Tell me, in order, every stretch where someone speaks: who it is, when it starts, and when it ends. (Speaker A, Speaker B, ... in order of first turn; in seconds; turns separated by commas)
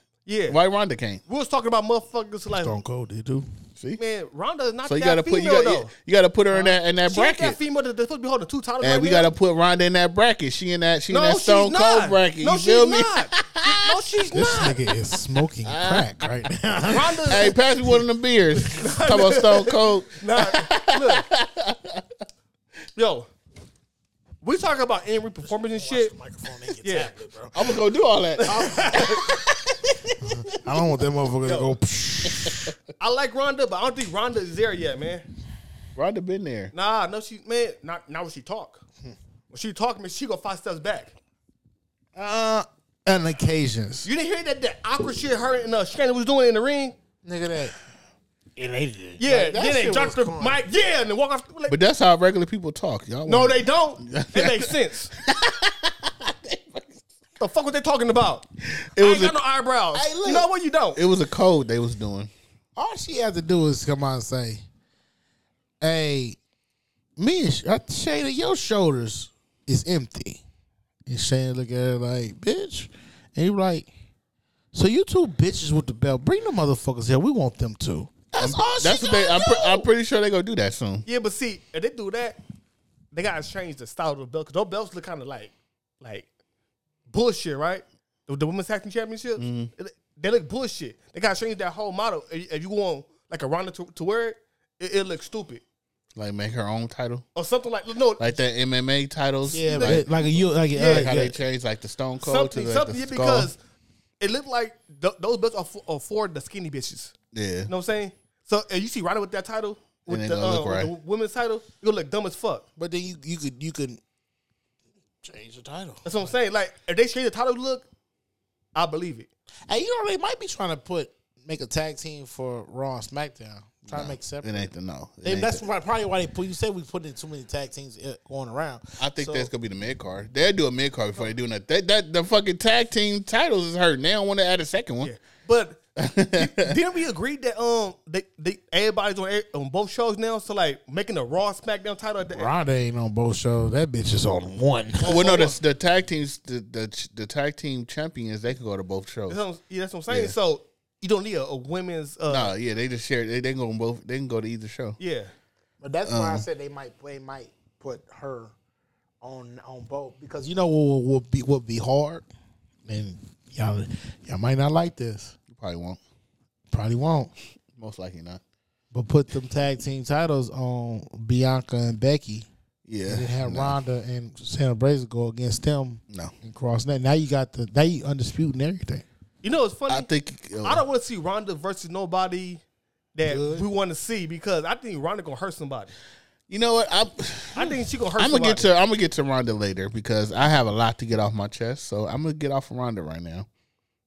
Speaker A: 0.2-0.6, Speaker B: 0.5-1.2, Speaker A: 1.3-2.7, Speaker C: 2.5-3.5, Speaker A: 4.0-5.9, Speaker B: 4.8-7.6, Speaker A: 6.5-9.3, Speaker B: 8.8-13.9, Speaker A: 11.1-14.8, Speaker C: 14.3-17.2, Speaker B: 15.7-16.3, Speaker A: 16.9-17.6, Speaker B: 17.3-22.0, Speaker A: 18.6-21.2, Speaker A: 23.0-23.3, Speaker A: 24.4-26.1, Speaker C: 25.4-27.8, Speaker A: 26.8-27.1, Speaker B: 27.5-29.4, Speaker A: 28.4-29.5, Speaker C: 30.2-32.7, Speaker A: 31.4-31.7, Speaker A: 33.0-35.2, Speaker B: 36.0-36.7, Speaker A: 36.7-38.8, Speaker A: 39.5-41.1, Speaker C: 42.1-44.1, Speaker A: 44.0-46.9, Speaker C: 47.2-47.7, Speaker C: 48.6-50.6, Speaker A: 49.2-51.8, Speaker B: 51.7-57.0, Speaker A: 53.2-55.1, Speaker A: 57.4-58.5, Speaker B: 58.8-59.4, Speaker A: 59.0-61.0, Speaker C: 59.9-60.5, Speaker B: 60.9-62.3, Speaker C: 62.8-64.6, Speaker C: 65.8-66.4, Speaker C: 67.2-70.4, Speaker C: 71.0-73.9, Speaker C: 74.7-79.9, Speaker B: 78.4-81.1, Speaker A: 81.0-82.4, Speaker A: 83.1-86.3, Speaker A: 87.1-95.6, Speaker B: 89.4-89.7, Speaker B: 96.2-97.3, Speaker A: 97.3-98.3, Speaker B: 98.2-103.5, Speaker C: 99.5-101.4, Speaker A: 99.5-100.1, Speaker A: 100.7-101.2, Speaker A: 102.2-103.6, Speaker A: 104.2-107.1, Speaker B: 107.3-107.7, Speaker A: 107.7-112.6, Speaker B: 110.1-110.9, Speaker C: 112.8-114.0, Speaker C: 115.2-116.0, Speaker A: 116.0-117.8, Speaker A: 118.7-119.3, Speaker C: 119.7-124.7, Speaker B: 123.9-125.6, Speaker C: 125.2-129.5, Speaker B: 129.0-135.1, Speaker A: 135.0-135.8, Speaker B: 136.0-136.7, Speaker A: 136.3-142.5, Speaker C: 142.3-145.1, Speaker A: 145.0-145.6, Speaker B: 145.0-149.4, Speaker A: 149.3-152.5, Speaker B: 150.1-150.3, Speaker B: 152.3-155.0, Speaker A: 155.0-155.3, Speaker C: 155.8-158.5, Speaker B: 156.0-156.4, Speaker C: 159.2-162.2, Speaker C: 162.8-165.3, Speaker B: 165.5-166.0, Speaker C: 166.7-167.3, Speaker B: 167.8-168.4, Speaker C: 168.9-172.5, Speaker B: 172.8-173.8, Speaker C: 173.1-179.0, Speaker A: 179.4-180.1, Speaker B: 179.9-180.8, Speaker A: 180.6-182.6, Speaker A: 183.1-185.9, Speaker C: 183.2-183.7, Speaker B: 186.5-193.5, Speaker A: 187.5-188.7